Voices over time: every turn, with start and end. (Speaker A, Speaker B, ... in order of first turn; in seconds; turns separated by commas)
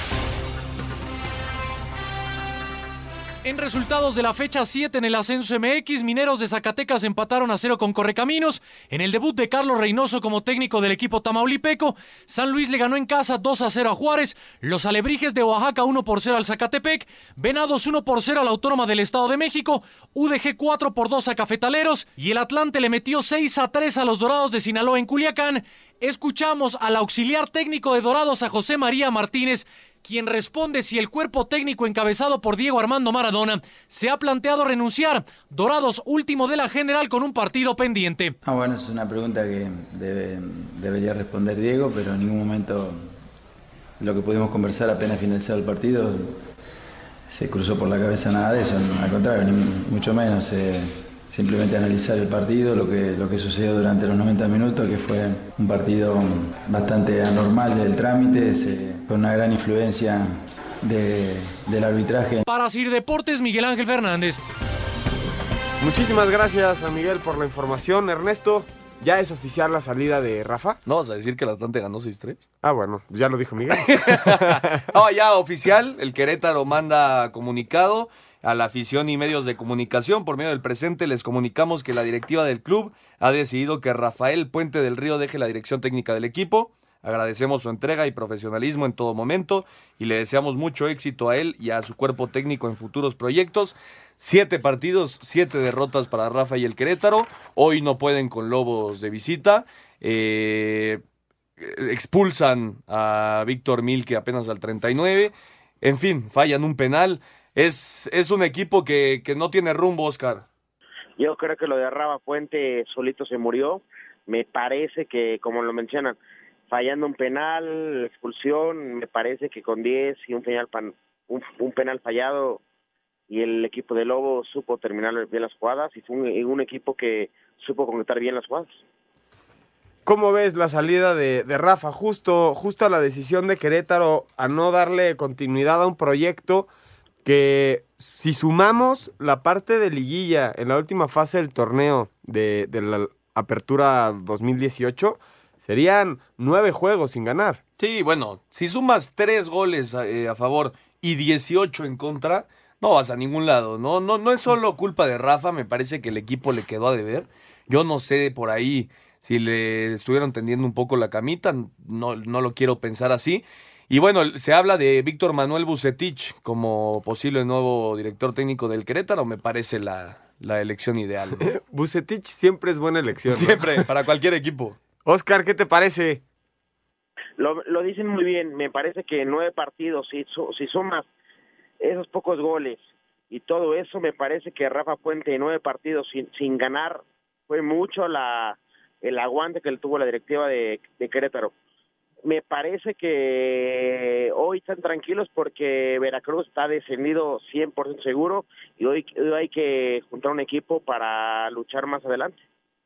Speaker A: 3.4-38.3, Speaker B: 38.5-43.1, Speaker B: 44.0-46.4, Speaker B: 47.3-62.4, Speaker A: 62.5-64.4, Speaker C: 65.8-70.8, Speaker D: 70.9-72.5, Speaker C: 72.6-74.8, Speaker D: 73.8-101.0, Speaker D: 101.6-110.5, Speaker E: 111.2-116.2, Speaker E: 116.7-122.6, Speaker E: 123.3-128.8, Speaker C: 130.1-136.7, Speaker C: 137.2-147.6, Speaker D: 147.8-171.5, Speaker C: 171.4-173.7, Speaker D: 173.3-174.8, Speaker C: 175.1-176.2, Speaker E: 177.4-181.1, Speaker E: 181.8-191.5, Speaker E: 192.2-202.4